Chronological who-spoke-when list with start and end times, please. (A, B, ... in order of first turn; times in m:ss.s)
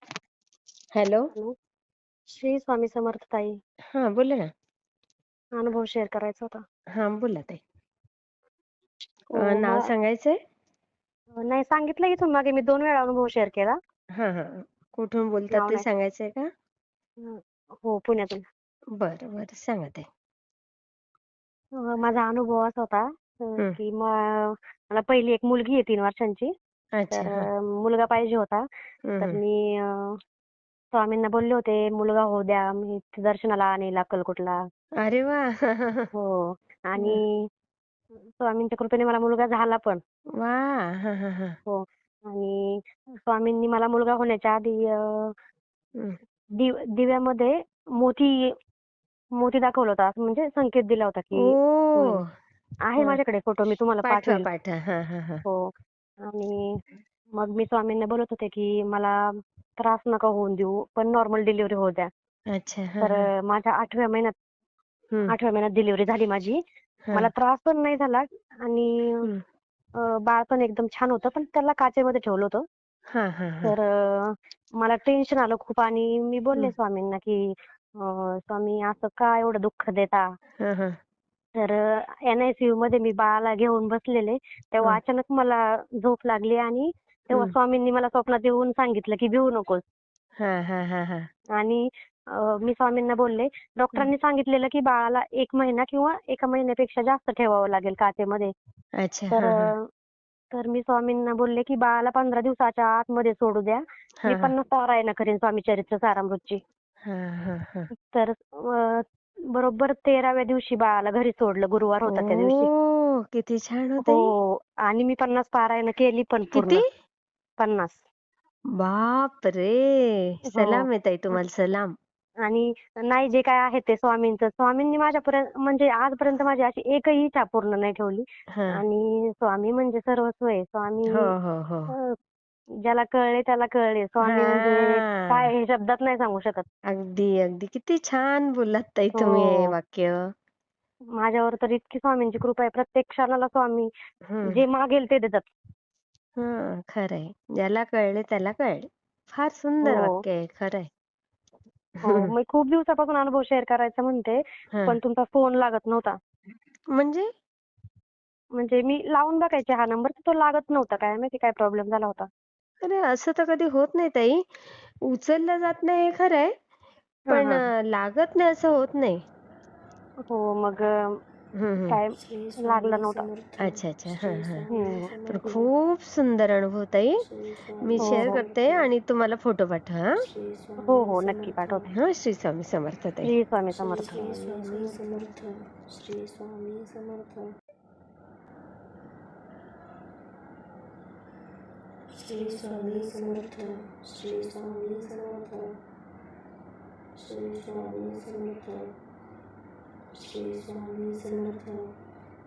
0:00.9-0:01.3 A
0:02.3-0:03.6 B
0:03.9-0:04.5 A
0:05.6-0:06.6 B
0:07.0-0:07.6 A
0:09.4-0:09.9 B
0:09.4-0:10.4 A
0:11.4-0:13.8 B
0:14.2-0:16.5 A
0:15.5-0:15.9 B
0:17.2-0:18.4 B
0:19.0-0:20.1 A
0:21.8-0:26.5 B
0:27.0-0:27.4 A
0:27.1-0:28.6 B
0:29.1-0:29.4 A
0:29.2-0:30.2 B
0:30.9-0:34.6 B
0:35.0-0:36.1 A
0:36.1-0:37.4 B
0:37.0-0:37.2 A
0:38.2-0:40.0 B
0:40.4-0:41.6 A
0:41.7-0:45.3 B
0:46.6-0:48.6 B
0:49.4-0:52.2 B
0:51.3-0:52.3 A
0:52.9-0:54.5 B
0:54.0-0:55.4 A
0:55.4-0:55.7 B
0:56.2-0:56.8 B
0:57.3-1:02.1 B
1:02.5-1:03.3 A
1:03.0-1:04.3 B
1:05.3-1:06.6 B
1:07.1-1:09.3 B
1:10.0-1:12.6 B
1:13.1-1:13.8 A
1:13.6-1:20.3 B
1:20.6-1:21.0 A
1:21.6-1:29.8 B
1:30.4-1:31.3 A
1:31.6-1:38.5 B
1:39.0-1:39.7 A
1:39.3-1:39.9 B
1:40.5-1:46.6 B
1:44.2-1:44.5 A
1:47.0-1:47.9 A
1:47.9-1:52.7 B
1:52.1-1:54.3 A
1:54.0-1:56.8 B
1:56.5-1:56.8 A
1:57.6-1:58.0 B
1:58.8-2:01.9 A
2:00.4-2:00.9 B
2:02.4-2:11.3 B
2:08.5-2:08.8 A
2:11.1-2:11.9 A
2:12.8-2:16.7 B
2:14.2-2:15.5 A
2:16.9-2:20.3 A
2:19.2-2:19.7 B
2:21.2-2:23.9 B
2:24.3-2:24.6 A
2:24.4-2:25.5 B
2:26.4-2:30.9 A
2:29.8-2:30.2 B
2:32.0-2:36.2 B
2:32.1-2:32.3 A
2:36.9-2:37.3 A
2:38.6-2:42.3 B
2:42.8-2:46.5 A
2:47.3-2:47.7 B
2:47.3-2:49.2 A
2:50.3-2:50.9 B
2:51.6-2:52.0 A
2:51.9-2:53.2 B
2:52.1-2:55.7 C
2:53.6-2:54.7 A
2:54.7-2:55.1 B
2:55.3-2:57.2 A
2:57.2-2:58.9 C
2:57.8-3:00.2 A
2:58.0-2:58.4 B
3:00.2-3:01.9 C
3:00.8-3:01.9 B
3:01.9-3:03.3 A
3:03.2-3:04.9 B
3:03.7-3:07.5 C
3:12.1-3:15.8 C
3:17.2-3:18.9 C
3:20.1-3:21.9 C